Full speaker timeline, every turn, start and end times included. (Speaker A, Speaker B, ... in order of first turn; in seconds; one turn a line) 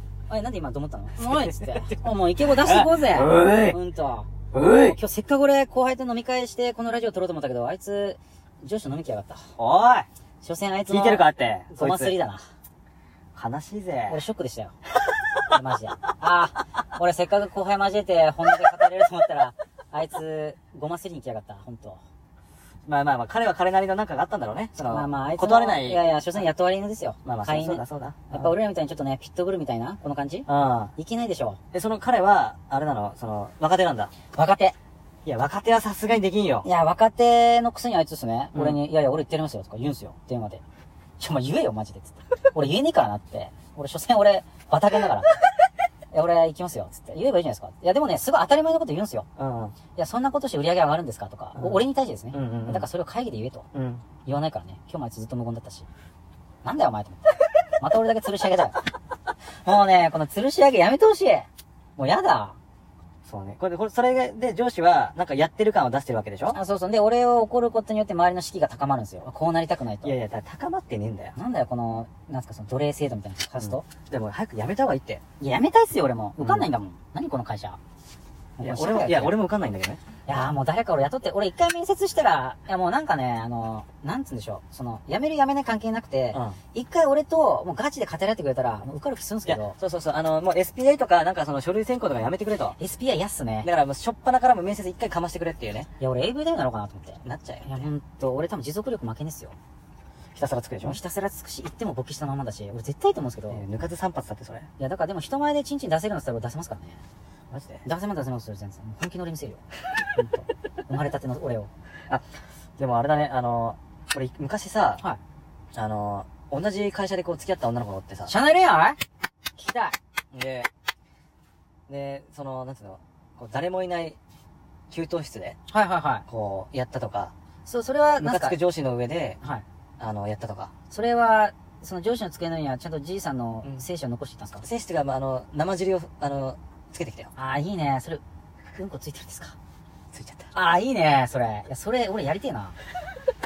Speaker A: 0.3-9.5
Speaker B: 1.2-3.8
Speaker B: 4.5-5.0
Speaker B: 9.6-10.1
Speaker A: 10.4-12.4
Speaker B: 10.9-12.2
Speaker B: 13.3-14.2
Speaker A: 14.1-14.7
Speaker A: 15.5-22.0
Speaker B: 22.8-26.0
Speaker A: 24.9-31.6
Speaker B: 27.2-28.5
Speaker B: 30.5-30.9
Speaker B: 31.7-34.1
Speaker A: 34.3-34.8
Speaker B: 35.2-36.7
Speaker A: 36.6-40.6
Speaker B: 38.5-38.8
Speaker A: 41.2-45.4
Speaker A: 46.1-49.3
Speaker B: 49.4-49.8
Speaker A: 50.0-53.7
Speaker B: 51.5-52.9
Speaker B: 53.7-54.0
Speaker A: 54.2-55.9
Speaker A: 56.6-58.8
Speaker A: 59.6-62.6
Speaker B: 63.2-66.6
Speaker A: 66.5-70.2
Speaker B: 70.0-71.3
Speaker A: 71.3-73.8
Speaker B: 73.6-75.2
Speaker A: 75.4-77.8
Speaker B: 76.4-76.7
Speaker A: 78.6-79.4
Speaker B: 78.6-80.0
Speaker A: 80.2-89.8
Speaker B: 86.3-86.6
Speaker B: 89.4-92.8
Speaker A: 92.8-93.7
Speaker B: 93.6-95.9
Speaker A: 96.0-99.5
Speaker B: 97.2-97.9
Speaker B: 100.3-101.0
Speaker A: 100.8-103.6
Speaker B: 103.5-104.7
Speaker A: 104.8-107.0
Speaker B: 107.5-107.8
Speaker A: 107.8-109.6
Speaker A: 110.1-111.7
Speaker B: 112.8-115.0
Speaker B: 115.7-118.3
Speaker A: 118.3-119.0
Speaker A: 119.6-120.0
Speaker B: 120.3-120.7
Speaker B: 121.9-124.2
Speaker B: 124.9-125.6
Speaker A: 125.7-126.2
Speaker B: 126.3-127.3
Speaker A: 127.7-128.6
Speaker B: 128.2-129.4
Speaker B: 130.0-130.7
Speaker A: 130.9-134.7
Speaker B: 134.6-137.3
Speaker A: 137.3-139.6
Speaker B: 140.1-140.5
Speaker A: 140.5-142.8